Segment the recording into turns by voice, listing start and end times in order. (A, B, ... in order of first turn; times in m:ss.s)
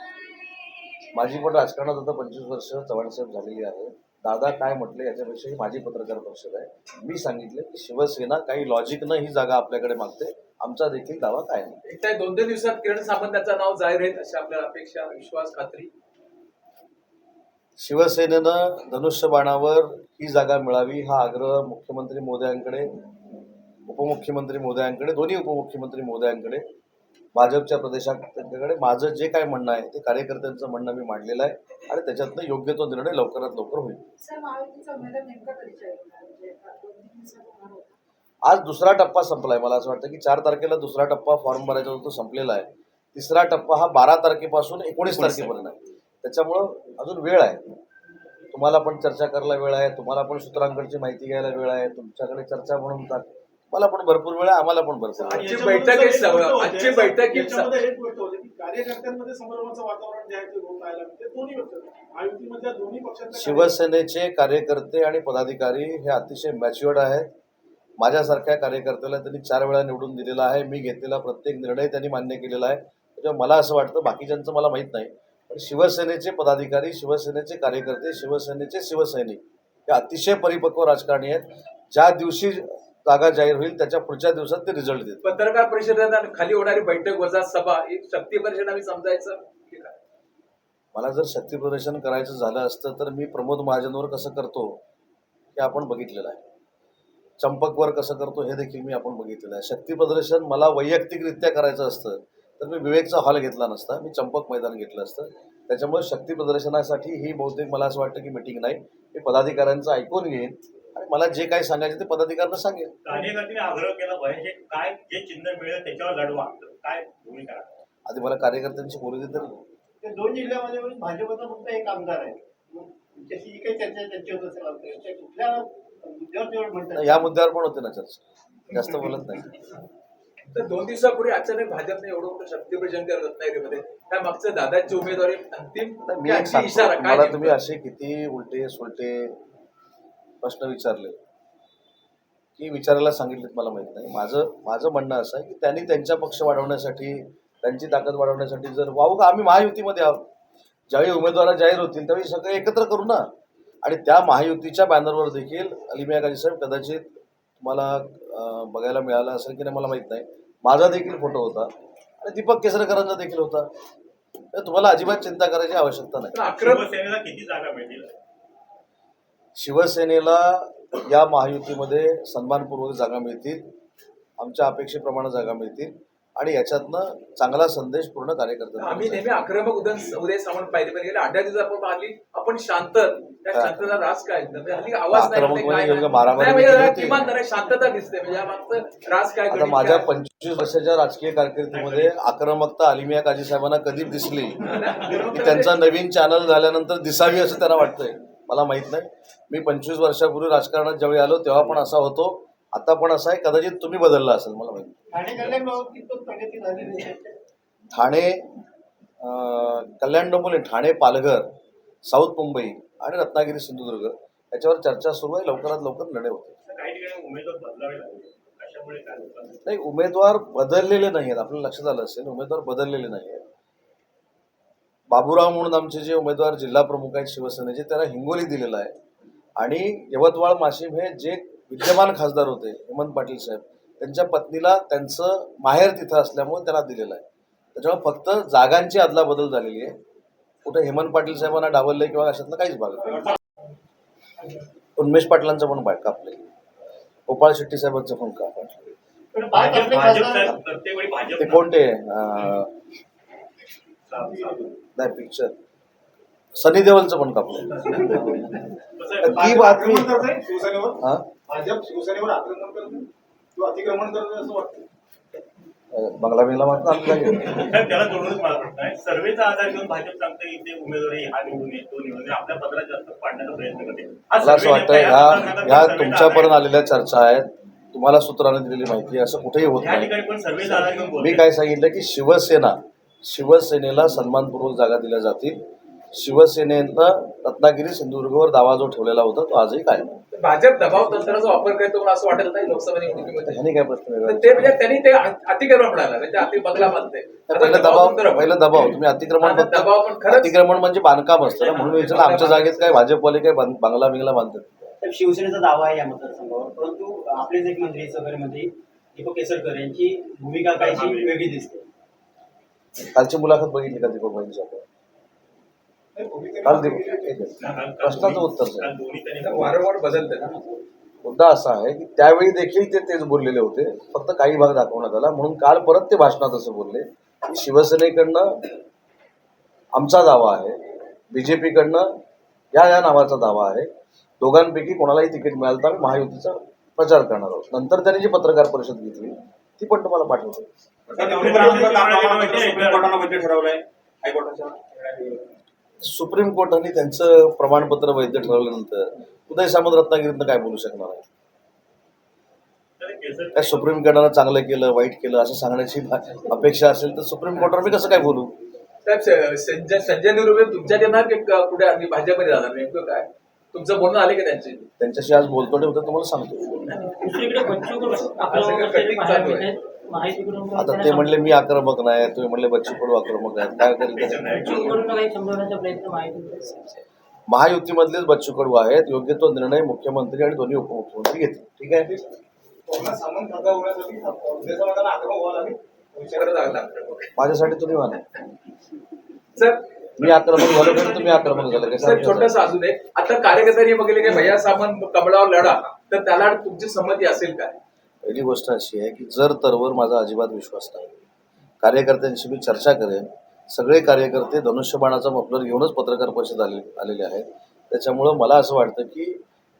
0:01.1-0:11.8 A
0:11.8-0:15.9 B
0:17.8-0:22.9 A
0:23.9-0:26.6 A
0:27.3-0:34.0 A
0:34.2-0:37.9 C
0:38.4-0:47.6 A
0:45.2-0:45.5 D
0:48.5-0:55.5 A
0:55.3-1:03.7 E
0:55.3-0:57.8 B
1:03.3-1:07.3 A
1:08.0-1:25.2 A
1:25.2-1:30.0 B
1:30.9-1:34.8 A
1:35.5-1:36.4 A
1:37.4-1:52.9 A
1:53.0-1:57.7 D
1:58.1-1:59.6 A
2:00.0-2:07.2 F
2:07.0-2:09.5 A
2:10.5-2:17.6 B
2:16.0-2:19.4 A
2:20.4-2:21.2 A
2:22.6-2:30.3 A
2:30.9-2:33.3 A
2:33.8-2:43.7 A
2:44.5-2:46.3 A
2:46.3-2:46.9 B
2:46.6-2:48.1 D
2:49.6-2:53.6 A
2:54.4-2:59.3 A
2:58.8-3:10.1 B
3:05.1-3:07.2 A
3:09.5-3:25.0 A
3:11.7-3:12.1 D
3:14.6-3:15.7 B
3:25.1-3:27.3 F
3:27.9-3:28.4 A
3:29.2-3:31.5 A
3:32.1-3:36.5 A
3:36.6-3:39.6 D
3:39.6-3:43.4 A
3:45.1-3:48.9 A
3:49.6-3:57.2 A
3:57.7-3:59.9 A
4:00.6-4:03.4 A
4:03.1-4:03.4 D
4:05.0-4:06.4 A
4:07.3-4:08.9 A
4:09.3-4:10.5 F
4:09.4-4:11.7 D
4:11.4-4:12.7 A
4:14.1-4:14.7 D
4:15.0-4:15.5 A
4:16.6-4:18.5 A
4:19.0-4:19.7 D
4:19.2-4:20.1 A
4:19.2-4:24.8 E
4:21.0-4:21.3 A
4:25.9-4:27.6 A
4:27.4-4:36.6 D
4:34.4-4:40.1 A
4:39.8-4:41.5 D
4:40.8-4:45.6 A
4:46.1-4:50.1 A
4:50.3-4:53.6 B
4:53.4-4:54.8 A
4:54.2-5:00.6 B
4:57.5-5:04.9 A
5:01.5-5:02.0 G
5:01.6-5:03.0 B
5:05.0-5:11.9 G
5:10.7-5:11.4 D
5:13.1-5:14.8 A
5:16.1-5:17.4 E
5:16.6-5:18.9 A
5:17.6-5:19.8 D
5:19.4-5:20.8 B
5:21.2-5:28.6 A
5:29.9-5:30.8 A
5:31.3-5:32.1 A
5:32.7-5:33.9 A
5:34.4-5:40.7 A
5:41.1-5:43.2 E
5:41.1-5:43.2 D
5:42.9-5:45.3 G
5:46.0-5:51.2 A
5:53.0-5:54.0 D
5:53.5-5:58.5 A
5:59.0-6:04.8 B
6:05.0-6:07.0 A
6:07.0-6:11.5 H
6:08.4-6:09.8 B
6:10.7-6:14.4 A
6:14.0-6:15.1 D
6:14.4-6:17.0 H
6:17.5-6:22.1 A
6:22.9-6:26.6 E
6:26.3-6:27.3 B
6:27.4-6:28.2 A
6:29.6-6:29.8 B
6:30.2-6:32.5 A
6:30.2-6:32.3 D
6:32.0-6:37.8 B
6:38.2-6:41.2 A
6:41.8-6:49.4 A